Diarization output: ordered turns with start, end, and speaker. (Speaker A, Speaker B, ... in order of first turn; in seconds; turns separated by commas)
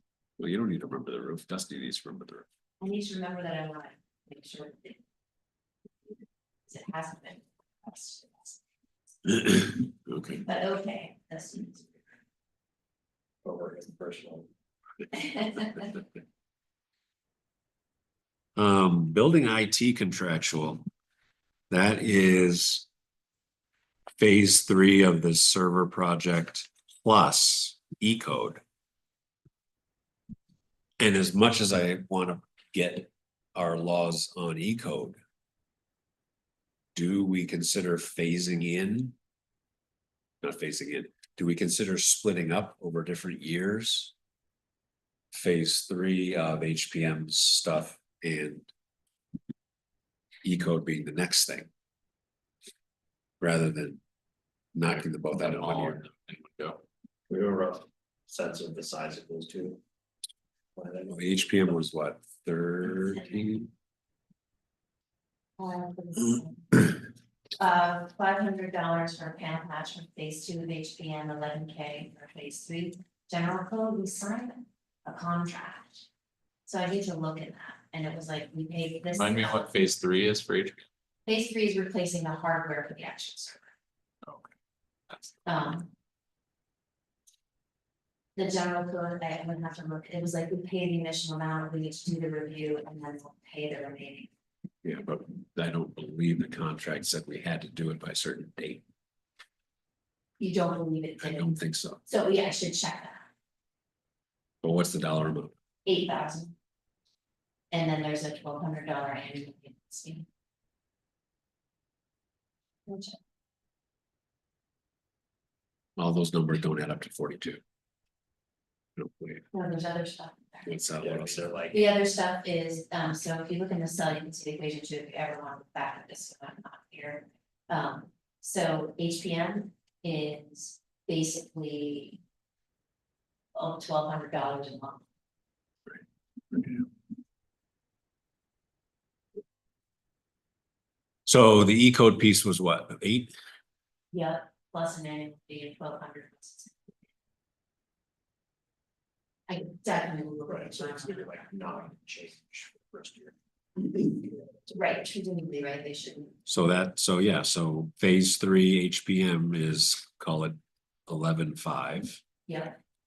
Speaker A: 0.4-2.5, Speaker B: 2.8-5.0, Speaker B: 6.7-8.6, Speaker A: 9.3-10.4, Speaker B: 10.4-12.1, Speaker C: 13.4-14.5, Speaker B: 15.1-16.0, Speaker A: 18.6-20.9, Speaker A: 21.7-22.9, Speaker A: 24.2-28.6, Speaker A: 31.0-35.2, Speaker A: 37.0-39.1, Speaker A: 40.4-44.1, Speaker A: 45.3-48.7, Speaker A: 50.4-51.7, Speaker A: 53.4-54.0, Speaker A: 54.7-56.0, Speaker D: 55.3-56.8, Speaker C: 57.3-59.8, Speaker C: 60.8-61.8, Speaker A: 61.1-63.7, Speaker B: 65.6-67.0, Speaker B: 67.6-76.0, Speaker B: 76.7-79.8, Speaker D: 79.1-80.8, Speaker B: 81.3-83.7, Speaker D: 84.2-84.5, Speaker D: 85.1-85.4, Speaker B: 85.5-85.9, Speaker B: 88.4-94.3, Speaker A: 94.8-98.8, Speaker B: 100.4-103.3, Speaker A: 101.2-102.0, Speaker A: 104.6-105.5, Speaker B: 105.8-106.5, Speaker B: 107.7-110.3, Speaker B: 112.9-113.2, Speaker A: 116.0-117.6, Speaker A: 119.0-119.5, Speaker B: 119.5-120.8, Speaker A: 120.7-121.5, Speaker C: 121.0-121.8, Speaker B: 121.7-132.2, Speaker B: 133.6-135.1, Speaker A: 136.5-136.8, Speaker A: 141.3-143.3, Speaker B: 144.1-146.8, Speaker B: 149.5-151.4, Speaker C: 150.5-154.4, Speaker B: 154.7-156.4, Speaker A: 156.5-162.2, Speaker B: 162.5-162.8